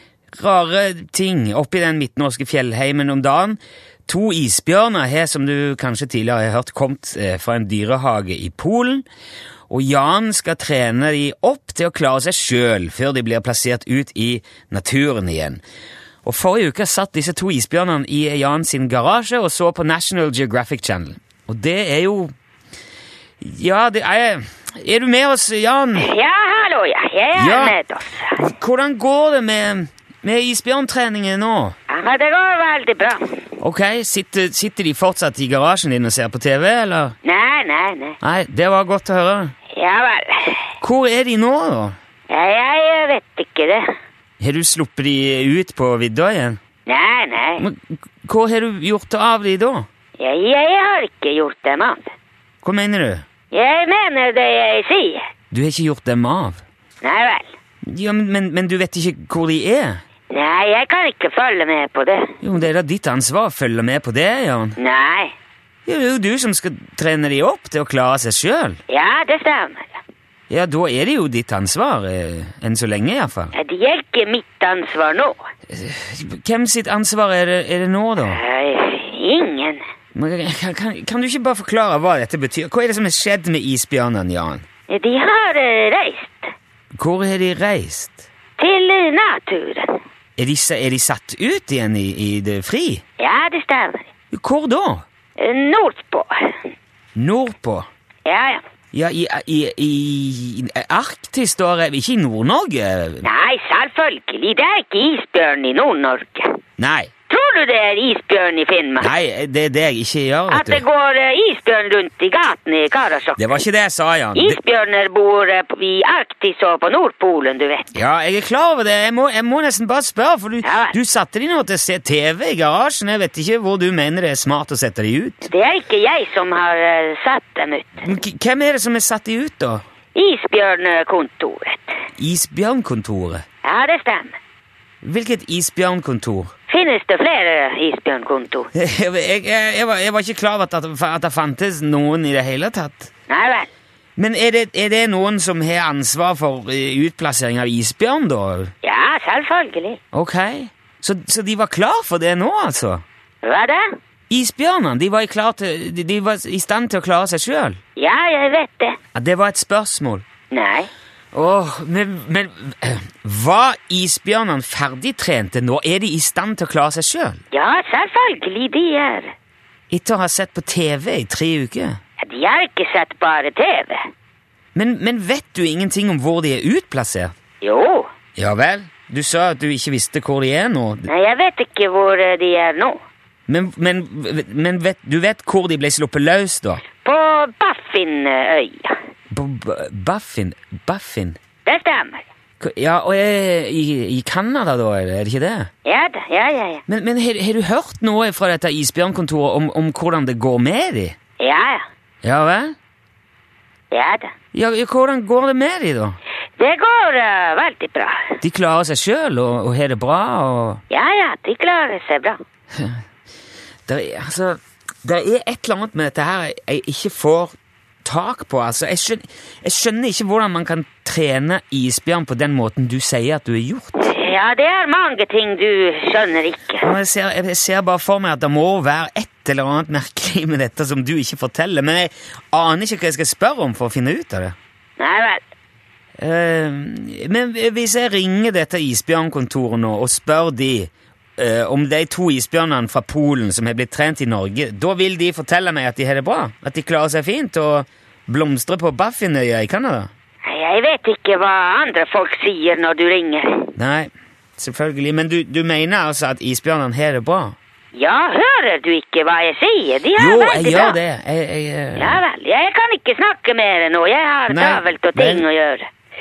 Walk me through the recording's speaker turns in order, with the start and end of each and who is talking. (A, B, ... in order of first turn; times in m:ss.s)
0:00.4-0:09.0 A
0:09.7-0:15.6 A
0:16.2-0:22.3 A
0:23.4-0:26.1 A
0:26.0-0:28.4 B
0:27.3-0:27.8 A
0:28.3-0:31.8 A
0:31.9-0:33.4 B
0:33.6-0:37.1 A
0:37.2-0:38.2 B
0:38.2-0:39.5 A
0:39.7-0:40.7 B
0:40.8-0:42.0 A
0:42.3-0:43.8 B
0:44.4-0:46.6 A
0:46.9-0:47.6 B
0:47.6-0:49.9 A
0:50.2-0:52.1 B
0:52.6-0:53.2 A
0:53.5-0:55.2 B
0:55.5-0:56.6 A
0:57.0-0:57.5 B
0:57.8-1:00.0 A
1:00.3-1:02.3 B
1:02.4-1:04.8 A
1:04.8-1:05.3 B
1:05.8-1:08.8 A
1:08.9-1:10.0 B
1:10.5-1:13.5 A
1:13.5-1:15.4 B
1:15.7-1:18.4 A
1:18.3-1:19.8 B
1:20.1-1:24.6 A
1:24.9-1:26.5 B
1:27.0-1:28.3 A
1:28.6-1:30.0 B
1:30.4-1:33.0 A
1:33.2-1:34.1 B
1:34.3-1:35.0 A
1:35.4-1:36.6 B
1:37.2-1:37.9 A
1:38.2-1:38.6 B
1:38.9-1:43.2 A
1:43.2-1:46.5 B
1:46.8-1:47.1 A
1:47.3-1:49.1 B
1:49.0-1:50.8 A
1:50.5-1:53.4 B
1:53.4-1:54.6 A
1:54.3-1:57.9 B
1:57.9-2:05.5 A
2:00.6-2:00.9 B
2:05.4-2:08.0 B
2:08.0-2:09.8 A
2:10.1-2:11.9 B
2:12.2-2:13.4 A
2:13.6-2:14.4 B
2:15.0-2:16.5 A
2:16.7-2:18.7 B
2:18.7-2:23.1 A
2:23.3-2:23.7 B
2:24.2-2:28.7 A
2:28.8-2:30.0 B
2:30.1-2:33.0 A
2:33.4-2:33.8 B
2:34.3-2:37.8 A
2:38.0-2:39.0 B
2:39.1-2:40.2 A
2:40.5-2:40.9 B
2:41.3-2:47.4 A
2:47.5-2:49.3 B
2:49.9-2:52.0 A
2:52.2-2:54.0 B
2:54.7-2:57.3 A
2:57.6-2:58.1 B
2:58.4-3:01.1 A
3:01.0-3:03.0 B
3:03.5-3:06.8 A
3:07.0-3:08.9 B
3:09.3-3:11.4 A
3:11.6-3:12.2 B
3:12.6-3:15.7 A
3:15.8-3:16.8 B
3:16.9-3:21.2 A
3:21.4-3:21.8 B
3:22.2-3:22.7 A
3:23.9-3:24.3 B
3:24.5-3:26.2 A
3:26.6-3:28.4 B
3:28.4-3:30.8 A
3:30.9-3:32.4 B
3:32.8-3:33.0 A
3:33.9-3:44.1 A
3:44.0-3:46.9 B
3:46.8-3:54.5 A
3:55.0-3:55.4 B
3:56.2-4:10.1 A
4:10.4-4:13.7 B
4:13.8-4:17.6 A
4:17.9-4:21.0 B
4:20.2-4:22.2 A
4:22.0-4:25.9 B
4:24.5-4:25.4 A